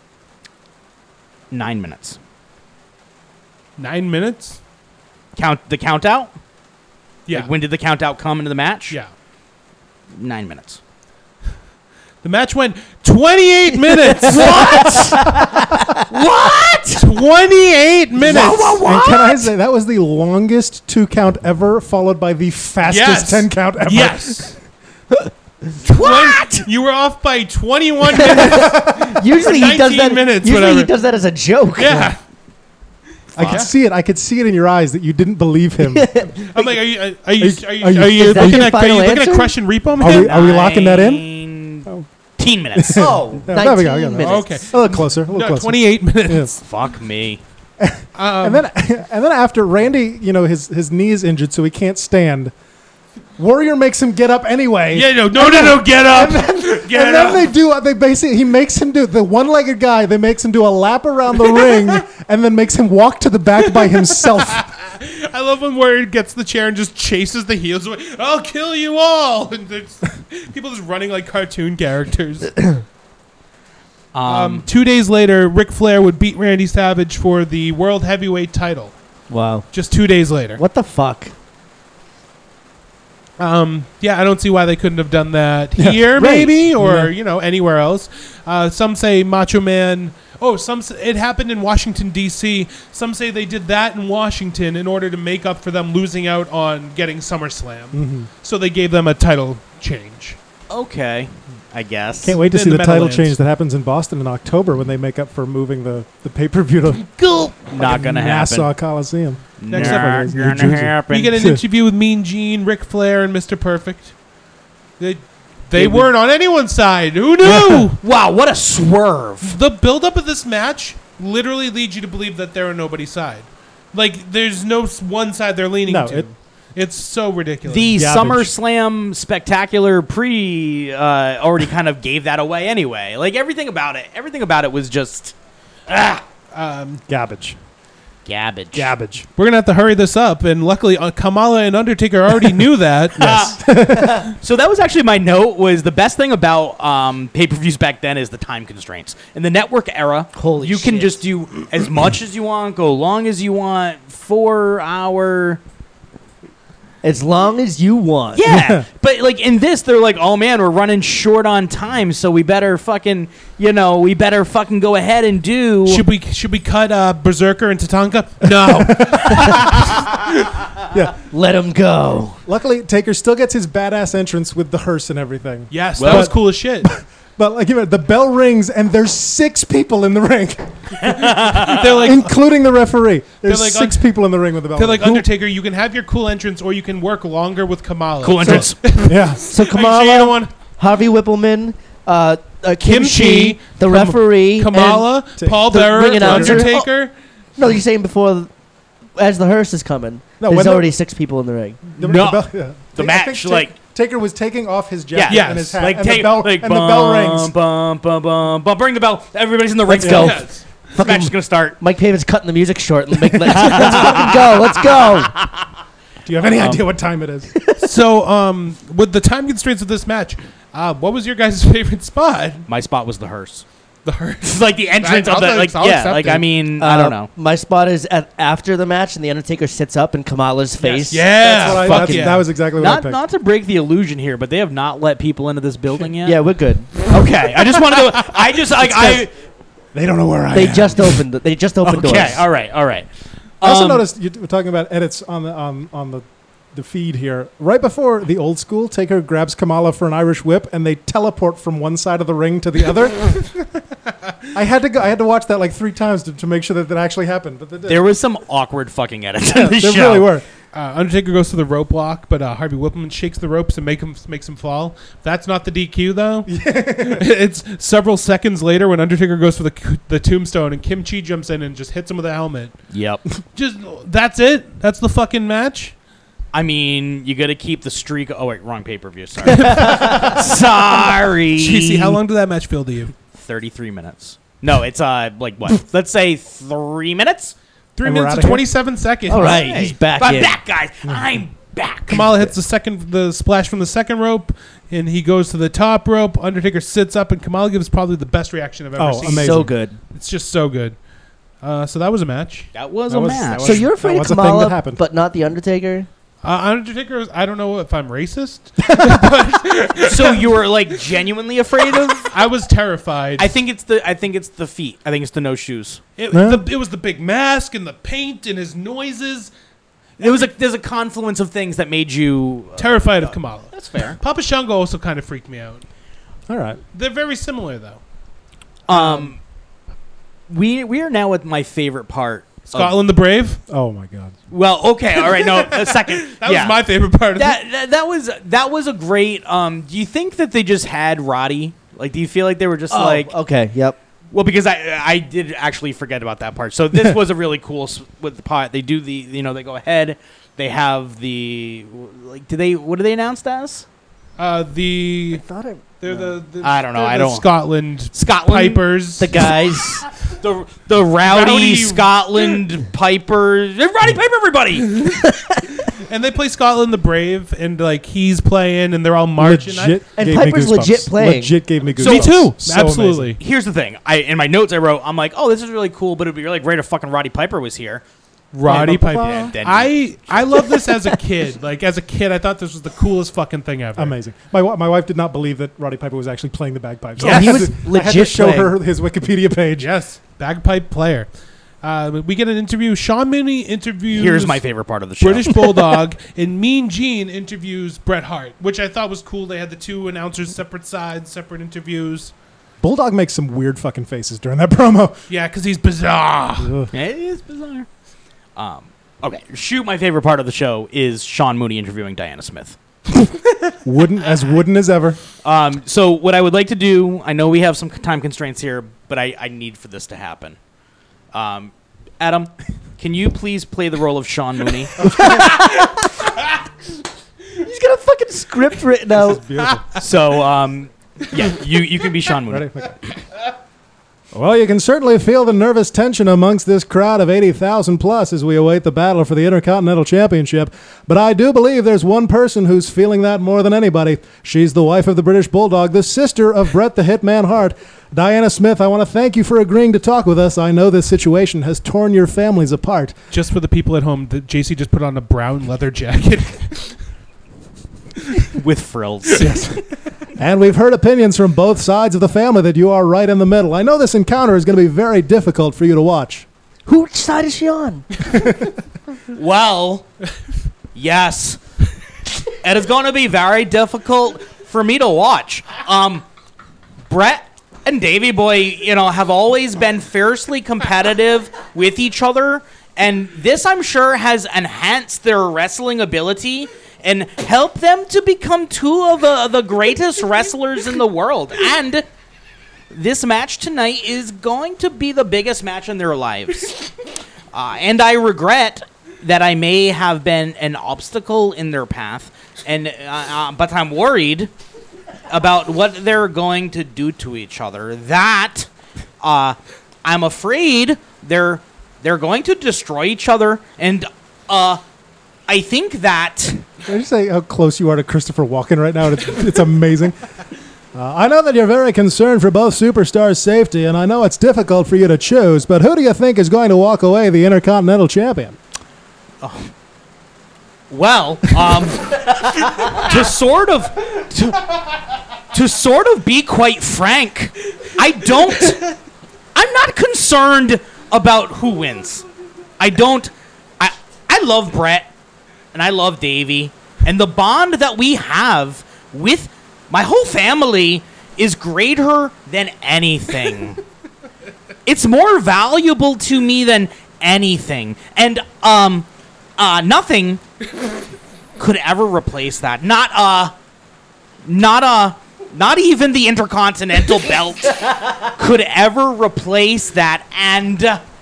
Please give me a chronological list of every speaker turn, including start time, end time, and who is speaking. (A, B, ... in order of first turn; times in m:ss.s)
0:01.5-0:02.2 A
0:03.8-0:04.6 B
0:05.4-0:06.3 A
0:07.3-0:09.0 A
0:10.2-0:10.8 A
0:12.2-0:15.3 B
0:14.2-0:17.1 A
0:16.9-0:18.8 B
0:18.2-0:19.5 A
0:18.3-0:24.6 C
0:22.8-0:24.6 B
0:25.8-0:30.9 B
0:25.9-0:26.6 A
0:28.1-0:32.1 D
0:28.4-0:29.1 C
0:31.8-0:32.2 B
0:31.9-0:32.1 C
0:33.4-0:33.7 B
0:33.4-0:36.3 C
0:33.4-0:33.7 A
0:35.8-0:36.5 D
0:36.4-0:40.3 B
0:37.4-0:38.8 C
0:38.2-0:39.6 D
0:40.0-0:41.3 C
0:40.0-0:43.3 A
0:42.8-0:46.5 C
0:43.0-0:44.5 D
0:44.2-0:46.6 B
0:46.6-0:47.4 A
0:47.8-0:52.5 C
0:48.2-0:48.7 B
0:53.4-1:04.6 C
0:54.9-0:57.5 B
1:01.6-1:01.9 B
1:03.6-1:12.6 B
1:14.1-1:14.7 A
1:14.3-1:19.0 B
1:19.3-1:19.7 D
1:19.7-1:20.6 B
1:20.6-1:21.3 D
1:23.4-1:40.4 B
1:25.8-1:26.2 C
1:26.2-1:26.5 D
1:26.7-1:27.1 C
1:37.9-1:38.3 C
1:40.7-1:42.4 A
1:42.2-1:51.6 C
1:42.4-1:43.4 B
1:47.7-1:48.7 A
1:49.6-1:51.4 A
1:49.7-1:54.1 B
1:55.0-1:58.0 B
1:55.8-1:56.1 A
1:57.4-1:59.6 A
1:57.4-1:57.7 C
1:59.4-2:07.9 B
2:05.8-2:06.3 C
2:07.7-2:15.3 A
2:07.9-2:08.5 C
2:15.9-2:16.2 A
2:16.5-2:17.0 B
2:17.1-2:17.6 C
2:18.3-2:18.9 A
2:18.7-2:19.3 C
2:19.4-2:23.5 B
2:23.2-2:35.6 A
2:23.2-2:24.3 C
2:30.4-2:31.2 D
2:37.0-2:38.4 D
2:38.3-2:46.0 A
2:38.4-2:38.8 C
2:45.9-2:50.3 B
2:48.4-2:50.0 C
2:51.3-2:52.4 D
2:52.5-3:05.3 C
2:55.7-2:56.9 B
2:56.0-2:56.3 A
3:01.0-3:02.1 A
3:01.5-3:02.3 B
3:03.4-3:04.0 B
3:04.8-3:10.5 B
3:08.2-3:08.8 A
3:08.5-3:09.4 C
3:09.4-3:16.8 D
3:12.8-3:17.2 B
3:15.4-3:16.7 C
3:17.6-3:18.5 D
3:19.2-3:21.8 D
3:20.4-3:20.9 C
3:22.0-3:23.7 A
3:22.0-3:27.5 C
3:25.1-3:31.8 A
3:25.3-3:25.8 B
3:29.9-3:35.3 D
3:30.0-3:30.3 C
3:30.1-3:30.6 B
3:33.5-3:35.7 A
3:36.2-3:37.5 C
3:36.6-3:36.8 A
3:37.6-3:37.8 D
3:37.8-3:42.7 B
3:42.7-3:43.6 A
3:44.0-3:46.4 B
3:44.4-3:47.3 A
3:46.8-3:52.3 D
3:50.8-3:52.5 B
3:51.4-3:53.2 C
3:52.8-3:56.4 A
3:56.2-3:56.9 D
3:57.0-3:59.3 A
3:59.9-4:01.2 C
4:00.5-4:02.4 D
4:01.8-4:03.1 A
4:03.6-4:04.0 A
4:03.6-4:13.5 C
4:14.5-4:18.1 C
4:17.9-4:20.4 A
4:19.4-4:20.4 C
4:20.7-4:32.8 B
4:26.5-4:27.3 C
4:32.9-4:33.2 A
4:33.5-4:36.0 B
4:36.5-4:42.2 A
4:39.5-4:40.4 B
4:39.6-4:40.3 D
4:41.6-4:43.1 B
4:43.3-4:47.6 A
4:48.0-4:49.7 B
4:48.0-4:48.7 C
4:49.3-4:50.6 D
4:49.4-4:52.3 A
4:52.1-5:01.0 B
4:59.0-4:59.7 C
4:59.2-5:00.0 D
5:01.6-5:02.7 B
5:02.7-5:03.9 A
5:03.1-5:05.0 C
5:03.6-5:06.1 D
5:06.4-5:10.5 B
5:10.0-5:12.4 A
5:12.3-5:13.5 B
5:13.4-5:16.0 A
5:16.2-5:19.5 B
5:16.3-5:16.6 C
5:20.2-5:24.2 A
5:20.2-5:20.5 B
5:22.8-5:25.8 B
5:26.5-5:26.8 C
5:26.9-5:28.0 B
5:28.9-5:29.4 A
5:28.9-5:29.3 B
5:30.5-5:33.0 A
5:32.7-5:33.6 B
5:33.7-5:34.4 C
5:34.5-5:43.3 A
5:35.2-5:37.6 B
5:42.9-5:44.0 D
5:44.3-5:53.8 A
5:54.4-5:55.4 B
5:55.3-5:56.4 D
5:56.0-5:59.4 B
5:56.6-5:57.5 A
5:58.1-5:58.8 A
5:59.2-6:00.1 D
6:00.3-6:05.2 A
6:01.2-6:02.6 B
6:05.9-6:10.0 B
6:09.4-6:13.4 C
6:10.2-6:11.6 D
6:12.0-6:12.5 A
6:12.0-6:13.4 B
6:13.4-6:18.0 A
6:18.5-6:24.2 B
6:18.7-6:19.5 C
6:18.7-6:20.9 A
6:24.0-6:29.9 C
6:27.2-6:27.6 B
6:27.2-6:28.8 D
6:29.8-6:31.3 B
6:31.8-6:34.6 B
6:34.1-6:36.0 A
6:35.2-6:42.3 B
6:42.8-6:45.2 C
6:45.3-6:46.8 B
6:46.6-6:46.9 C
6:46.9-6:47.9 A
6:48.6-6:52.8 A
6:53.8-6:55.2 C
6:55.4-7:00.6 A
7:01.3-7:05.4 A
7:07.6-7:09.4 D
7:09.1-7:09.9 C
7:10.0-7:13.1 A
7:12.5-7:13.0 C
7:14.3-7:33.1 C
7:33.3-7:37.0 B
7:38.5-7:39.6 A
7:39.4-7:39.8 C
7:40.4-7:46.5 C
7:46.9-7:48.1 D
7:48.3-7:48.7 C
7:49.3-7:50.1 A
7:51.0-7:51.6 A
7:52.6-7:56.2 A
7:57.1-8:12.0 A
8:12.9-8:16.8 A
8:17.5-8:24.5 A
8:25.3-8:28.7 A
8:29.2-8:34.8 A
8:35.5-8:36.6 A
8:36.8-8:40.2 C
8:40.9-8:48.6 C
8:49.4-8:49.7 A
8:50.9-8:54.7 A
8:55.5-8:59.0 A
8:59.6-9:02.2 A
9:02.8-9:05.1 A
9:05.7-9:13.8 A
9:14.9-9:19.1 A
9:19.6-9:20.4 A
9:21.6-9:23.5 A
9:24.4-9:31.0 A